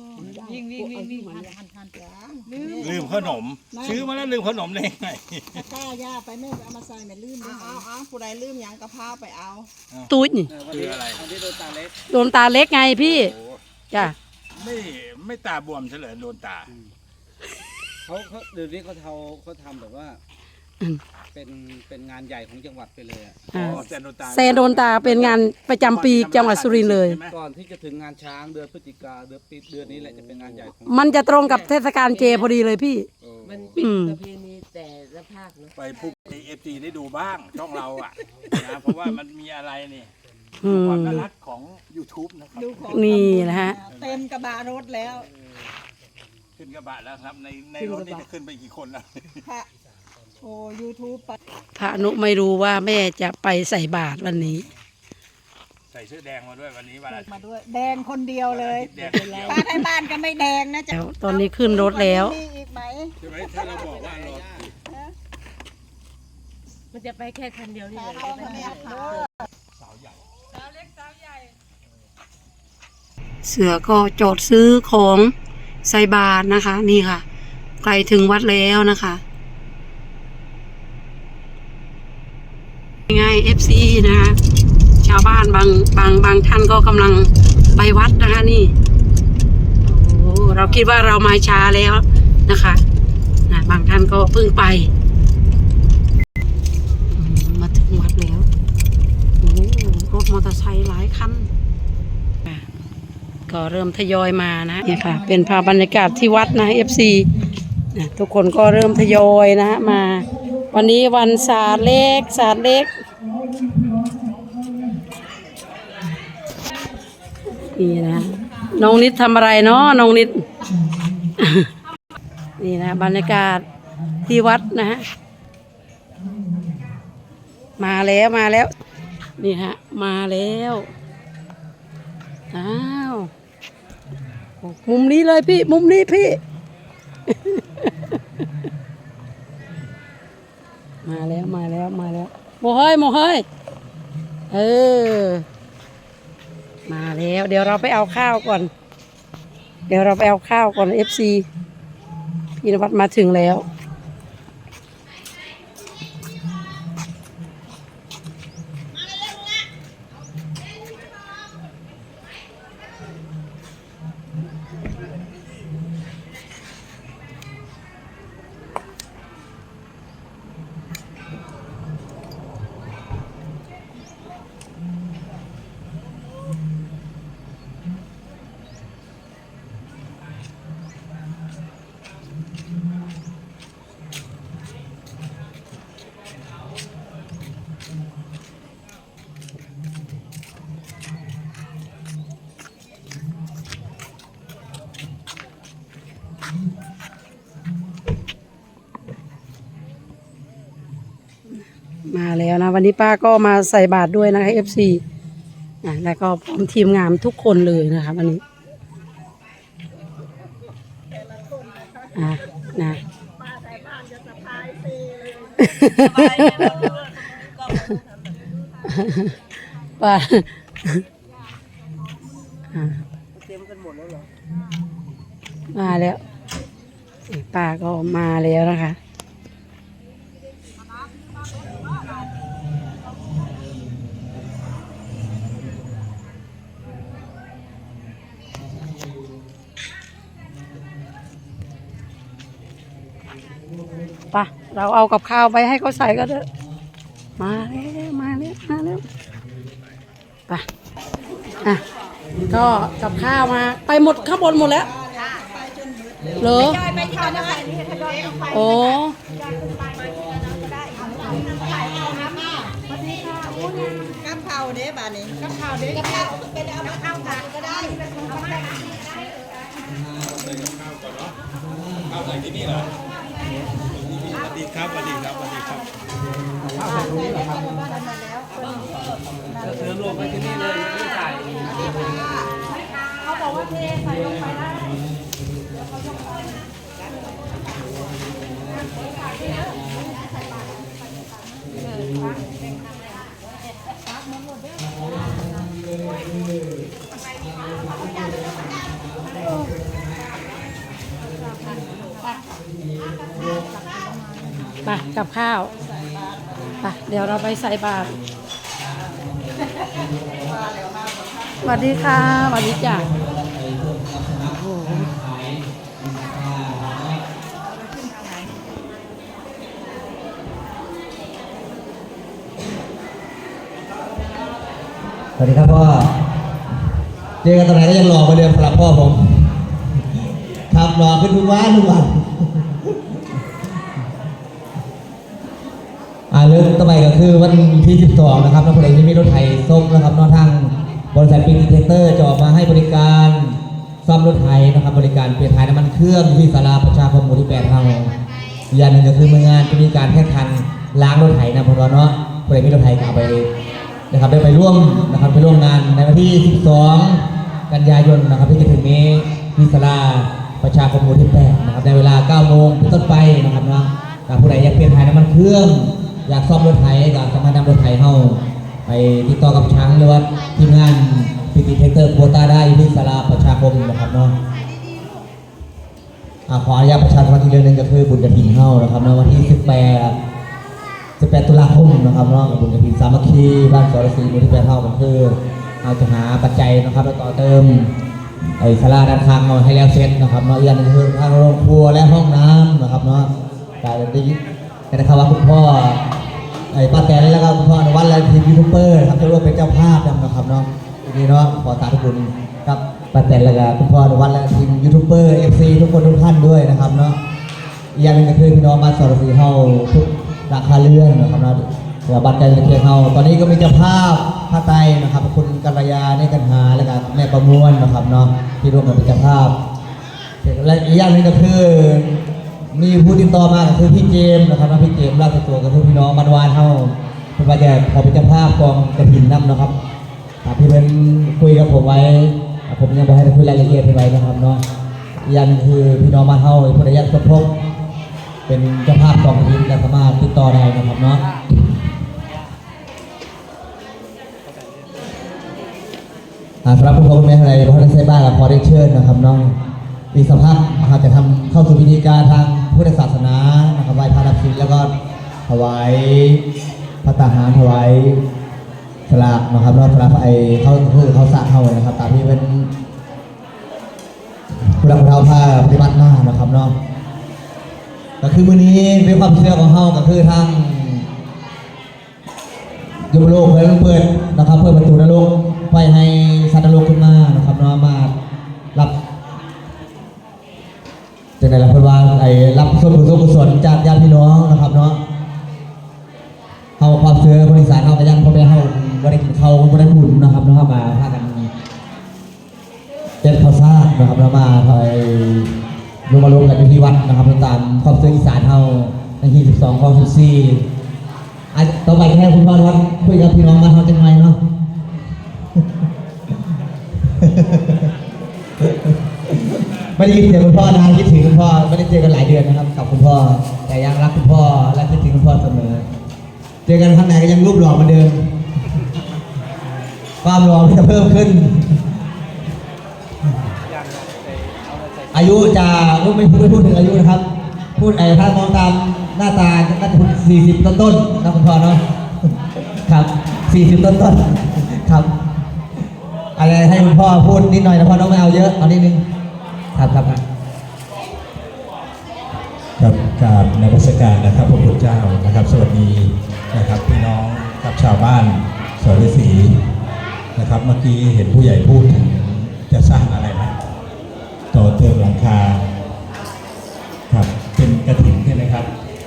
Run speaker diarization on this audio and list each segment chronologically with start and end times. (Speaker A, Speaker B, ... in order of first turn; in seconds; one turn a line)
Speaker A: 0.2-1.6
Speaker B: 0.3-1.9
Speaker C: 1.9-4.1
Speaker B: 2.5-2.8
Speaker D: 2.7-5.6
Speaker C: 5.5-9.7
Speaker E: 10.1-10.5
Speaker F: 10.5-12.0
Speaker D: 10.7-11.2
Speaker E: 12.1-13.3
Speaker D: 12.9-14.0
Speaker D: 14.5-16.7
Speaker F: 18.0-20.2
Speaker F: 21.3-23.9
Speaker E: 23.5-27.2
Speaker D: 23.5-27.4
Speaker F: 27.2-31.3
Speaker E: 30.9-33.1
Speaker A: 31.4-32.5
Speaker F: 33.2-33.8
Speaker A: 33.4-35.7
Speaker E: 33.8-34.2
Speaker D: 35.8-40.1
Speaker E: 40.6-41.2
Speaker D: 40.6-43.0
Speaker C: 42.5-45.3
Speaker E: 42.9-43.8
Speaker D: 43.9-44.2
Speaker D: 46.6-49.4
Speaker A: 47.8-48.2
Speaker C: 50.4-51.4
Speaker E: 51.8-54.7
Speaker D: 55.9-57.4
Speaker C: 57.1-63.1
Speaker D: 58.4-59.8
Speaker E: 60.9-62.4
Speaker D: 63.2-64.7
Speaker F: 63.6-64.6
Speaker C: 64.9-65.1
Speaker A: 66.9-69.2
Speaker C: 68.1-69.3
Speaker D: 69.8-70.2
Speaker E: 73.4-75.3
Speaker E: 75.8-77.2
Speaker E: 77.8-79.2
Speaker E: 83.1-84.4
Speaker E: 85.0-88.7
Speaker E: 89.8-92.8
Speaker E: 93.5-94.9
Speaker E: 97.1-98.5
Speaker E: 99.4-101.5
Speaker E: 103.5-107.3
Speaker E: 107.9-112.9
Speaker E: 117.7-120.4
Speaker E: 121.4-121.7
Speaker E: 122.6-123.6
Speaker E: 124.2-125.0
Speaker E: 127.8-128.7
Speaker E: 129.4-130.9
Speaker E: 132.5-133.3
Speaker E: 134.6-136.4
Speaker E: 137.3-137.8
Speaker E: 141.0-143.4
Speaker E: 144.5-145.4
Speaker E: 146.9-148.7
Speaker E: 149.9-151.4
Speaker E: 152.6-153.7
Speaker E: 202.1-205.0
Speaker E: 205.8-208.4
Speaker C: 211.1-212.6
Speaker E: 212.1-213.0
Speaker C: 213.4-219.3
Speaker E: 215.6-216.8
Speaker A: 216.0-217.4
Speaker E: 218.9-219.3
Speaker E: 220.0-221.0
Speaker E: 222.7-223.0
Speaker A: 223.3-224.3
Speaker E: 225.7-226.2
Speaker E: 227.3-229.0
Speaker E: 244.3-246.4
Speaker E: 247.4-249.0
Speaker E: 252.5-254.9
Speaker C: 254.4-258.7
Speaker E: 256.4-256.8
Speaker E: 258.5-259.1
Speaker G: 259.9-262.3
Speaker C: 260.2-262.7
Speaker B: 262.9-263.9
Speaker C: 264.2-269.3
Speaker B: 265.4-266.3
Speaker B: 266.9-268.6
Speaker D: 270.1-271.4
Speaker D: 272.1-272.9
Speaker D: 273.9-275.9
Speaker F: 276.7-277.7
Speaker B: 276.8-277.2
Speaker G: 276.9-277.1
Speaker C: 277.0-278.8
Speaker G: 279.4-279.7
Speaker F: 279.6-281.9
Speaker C: 279.6-280.3
Speaker B: 281.0-281.4
Speaker C: 281.6-282.6
Speaker B: 283.2-284.8
Speaker C: 289.1-289.6
Speaker G: 291.8-292.3
Speaker B: 292.0-292.5
Speaker G: 295.1-296.2
Speaker G: 297.6-298.5
Speaker G: 299.2-300.0
Speaker E: 299.4-299.7
Speaker G: 301.3-302.1
Speaker G: 302.9-303.4
Speaker B: 303.9-304.5
Speaker E: 304.8-305.7
Speaker E: 306.8-308.1
Speaker G: 308.9-310.7
Speaker C: 310.6-311.6
Speaker G: 311.6-317.2
Speaker E: 311.6-313.1
Speaker E: 314.4-315.1
Speaker G: 325.4-326.1
Speaker G: 327.4-329.7
Speaker G: 330.4-332.9
Speaker G: 336.3-348.2
Speaker G: 348.7-353.5
Speaker G: 354.1-374.4
Speaker G: 376.5-380.2
Speaker G: 381.2-387.9
Speaker G: 388.6-394.4
Speaker G: 394.9-396.1
Speaker G: 396.7-407.2
Speaker G: 407.9-419.6
Speaker G: 420.4-429.8
Speaker G: 430.4-434.6
Speaker G: 435.2-437.6
Speaker G: 438.5-441.2
Speaker F: 444.4-445.0
Speaker G: 446.6-449.6
Speaker G: 450.1-454.9
Speaker G: 455.5-456.4
Speaker G: 457.0-458.2
Speaker G: 459.1-462.7
Speaker G: 464.6-466.8
Speaker G: 468.2-471.1
Speaker G: 473.0-478.1
Speaker G: 481.4-485.0
Speaker G: 486.8-491.5
Speaker G: 493.2-495.5
Speaker G: 496.1-500.7
Speaker G: 501.5-504.4
Speaker G: 507.1-507.9
Speaker G: 508.6-515.9
Speaker G: 516.6-518.3
Speaker G: 520.2-521.8
Speaker F: 523.6-525.4
Speaker G: 525.1-531.8
Speaker G: 532.7-535.1
Speaker G: 536.3-539.0
Speaker G: 539.7-540.2
Speaker D: 542.8-549.6
Speaker D: 550.4-553.5
Speaker D: 554.5-555.6
Speaker D: 557.1-558.7